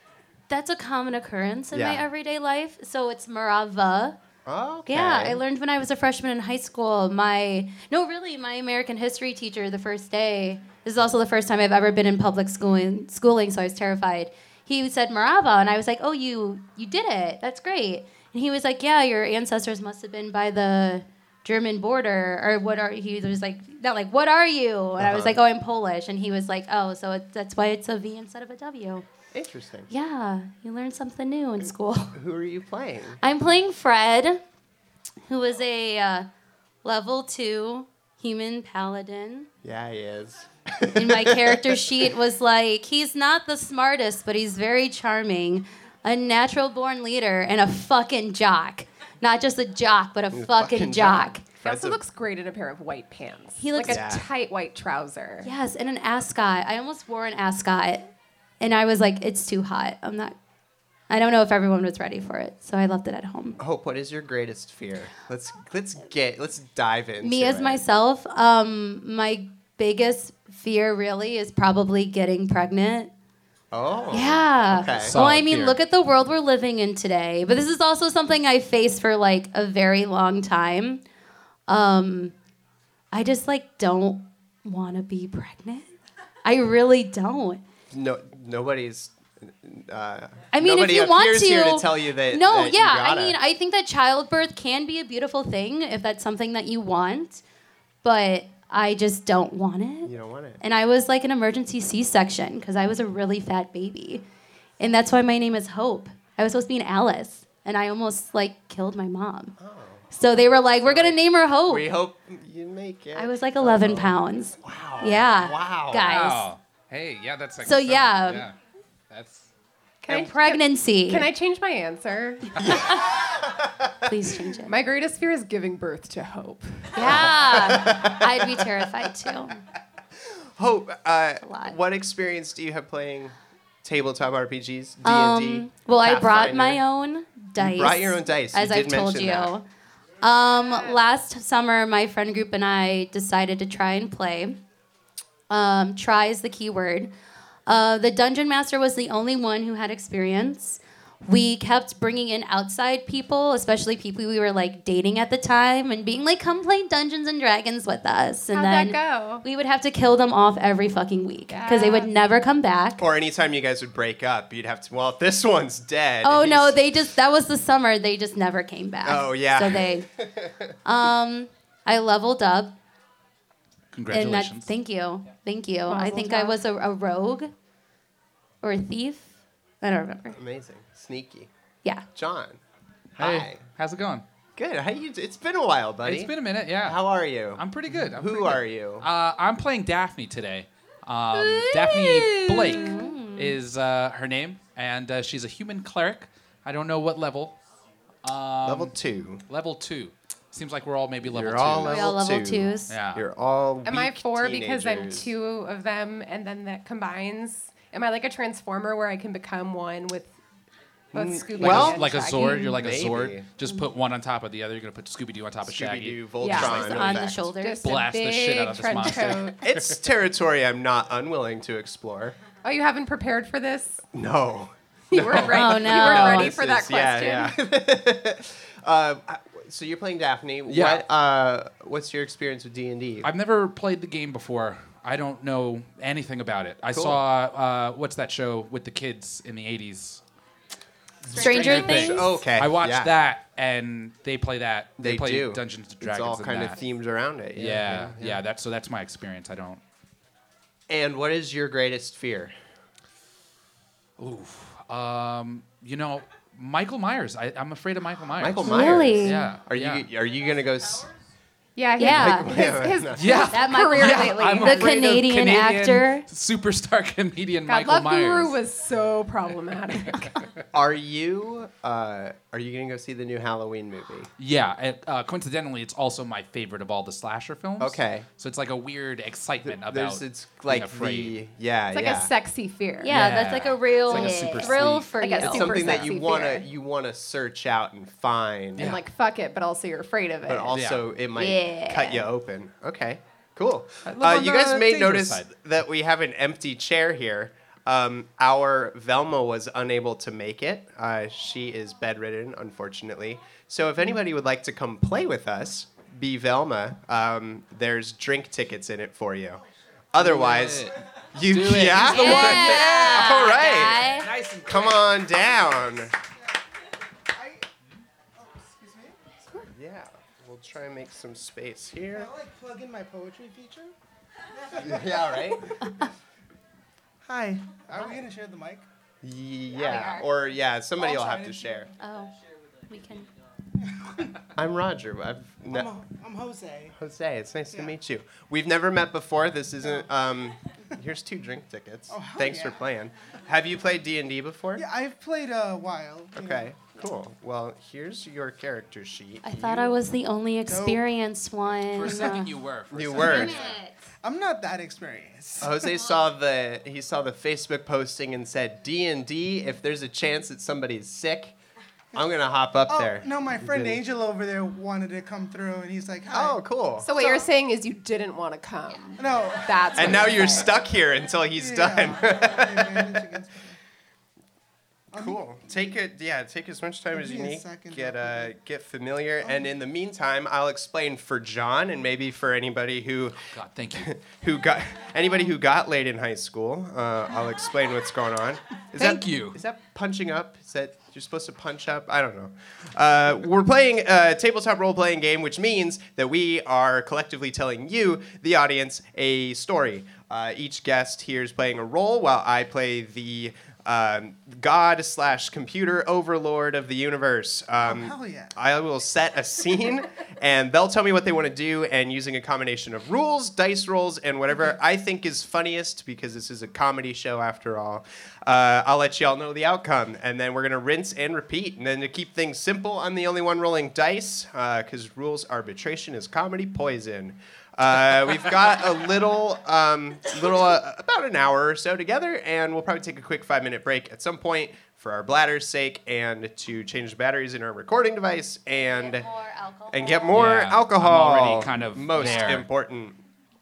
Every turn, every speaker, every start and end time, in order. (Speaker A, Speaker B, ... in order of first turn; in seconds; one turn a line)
Speaker A: 0.5-4.2
Speaker B: 1.7-2.0
Speaker B: 4.5-5.4
Speaker A: 4.9-29.1
Speaker B: 25.0-25.4
Speaker B: 29.3-29.9
Speaker A: 29.9-32.2
Speaker B: 32.1-33.2
Speaker A: 33.2-34.4
Speaker A: 35.2-36.3
Speaker A: 36.8-39.5
Speaker B: 39.6-42.1
Speaker A: 40.9-51.4
Speaker B: 50.3-52.0
Speaker C: 51.6-55.5
Speaker A: 53.6-54.0
Speaker B: 53.9-54.2
Speaker A: 55.4-60.4
Speaker A: 61.1-63.6
Speaker B: 63.6-67.8
Speaker A: 67.2-73.1
Speaker B: 73.7-75.2
Speaker A: 74.1-81.0
Speaker D: 74.9-75.8
Speaker A: 81.7-82.3
Speaker A: 83.1-85.9
Speaker A: 86.4-87.6
Speaker B: 87.9-93.4
Speaker A: 90.5-97.4
Speaker A: 98.0-104.2
Speaker B: 100.0-100.6
Speaker A: 104.8-109.5
Speaker B: 109.6-110.0
Speaker A: 110.1-111.9
Speaker B: 110.8-116.1
Speaker A: 113.1-116.5
Speaker D: 116.0-118.5
Speaker A: 117.6-118.5
Speaker D: 119.1-119.5
Speaker C: 120.0-122.9
Speaker A: 120.1-121.3
Speaker B: 122.6-124.0
Speaker A: 122.6-123.1
Speaker A: 124.0-124.7
Speaker C: 124.7-127.2
Speaker A: 126.9-129.6
Speaker B: 127.0-128.7
Speaker B: 130.2-136.8
Speaker A: 131.4-131.8
Speaker A: 135.0-139.7
Speaker B: 137.6-139.5
Speaker A: 140.2-144.6
Speaker A: 145.5-147.1
Speaker A: 147.7-163.0
Speaker C: 158.5-159.4
Speaker C: 161.5-162.1
Speaker B: 163.0-166.8
Speaker A: 166.2-170.1
Speaker B: 169.0-170.7
Speaker A: 170.8-172.8
Speaker D: 173.9-174.7
Speaker A: 174.1-177.5
Speaker C: 175.9-176.6
Speaker A: 178.6-180.4
Speaker B: 180.3-181.5
Speaker B: 182.1-182.6
Speaker B: 183.1-183.6
Speaker D: 183.2-184.2
Speaker B: 184.6-189.1
Speaker D: 186.0-197.6
Speaker A: 191.3-193.6
Speaker D: 198.2-198.9
Speaker B: 198.6-199.4
Speaker D: 199.5-202.0
Speaker B: 201.2-205.3
Speaker A: 201.8-202.9
Speaker D: 202.9-203.2
Speaker C: 203.8-210.4
Speaker C: 211.1-212.7
Speaker B: 211.1-213.5
Speaker D: 211.6-217.2
Speaker B: 215.6-217.4
Speaker C: 216.4-216.9
Speaker A: 216.4-217.8
Speaker C: 217.5-219.7
Speaker D: 217.8-220.0
Speaker B: 219.6-222.4
Speaker C: 222.6-224.0
Speaker B: 224.1-233.3
Speaker C: 225.1-227.6
Speaker D: 225.2-226.1
Speaker A: 225.5-226.5
Speaker D: 230.7-231.0
Speaker D: 233.2-240.2
Speaker B: 236.9-237.2
Speaker D: 241.2-246.8
Speaker A: 241.3-242.3
Speaker C: 241.4-241.7
Speaker B: 241.7-243.1
Speaker B: 245.0-248.4
Speaker D: 247.6-249.8
Speaker B: 250.9-252.5
Speaker D: 254.2-260.1
Speaker B: 258.4-261.1
Speaker A: 258.6-259.4
Speaker C: 261.8-265.0
Speaker A: 262.0-262.6
Speaker B: 262.0-263.5
Speaker D: 263.1-268.6
Speaker A: 263.4-266.2
Speaker C: 267.6-270.4
Speaker B: 270.7-274.3
Speaker D: 274.4-281.4
Speaker B: 277.8-278.3
Speaker B: 279.6-282.3
Speaker C: 281.9-283.1
Speaker A: 283.0-285.9
Speaker D: 283.1-285.1
Speaker C: 284.1-286.7
Speaker B: 285.4-288.9
Speaker D: 288.8-289.0
Speaker C: 288.8-290.7
Speaker B: 290.4-316.1
Speaker D: 290.7-291.0
Speaker A: 291.4-292.2
Speaker D: 294.1-295.5
Speaker D: 310.2-313.6
Speaker A: 312.0-314.3
Speaker D: 314.1-315.2
Speaker E: 317.3-317.6
Speaker E: 318.4-319.2
Speaker B: 319.6-322.3
Speaker E: 322.1-323.9
Speaker E: 324.5-325.5
Speaker B: 324.8-325.9
Speaker E: 327.2-328.8
Speaker B: 329.2-331.9
Speaker E: 331.0-331.9
Speaker A: 332.0-332.3
Speaker A: 332.9-333.3
Speaker E: 333.8-334.4
Speaker B: 334.5-335.9
Speaker E: 335.7-336.9
Speaker B: 336.9-344.8
Speaker E: 342.1-342.8
Speaker E: 344.8-346.7
Speaker B: 346.3-349.9
Speaker A: 349.4-352.5
Speaker E: 350.7-351.0
Speaker D: 351.9-353.7
Speaker B: 352.9-353.7
Speaker A: 353.2-353.9
Speaker E: 353.2-353.5
Speaker E: 354.2-355.9
Speaker B: 355.6-361.6
Speaker B: 362.1-364.0
Speaker E: 362.9-367.5
Speaker B: 366.3-367.1
Speaker C: 367.0-370.8
Speaker E: 369.2-370.6
Speaker B: 369.9-373.3
Speaker E: 371.5-373.8
Speaker B: 375.1-383.4
Speaker E: 377.1-378.5
Speaker D: 383.5-384.1
Speaker B: 383.9-439.3
Speaker D: 389.0-389.6
Speaker E: 407.8-408.5
Speaker A: 438.7-440.4
Speaker B: 439.9-443.2
Speaker D: 440.3-442.7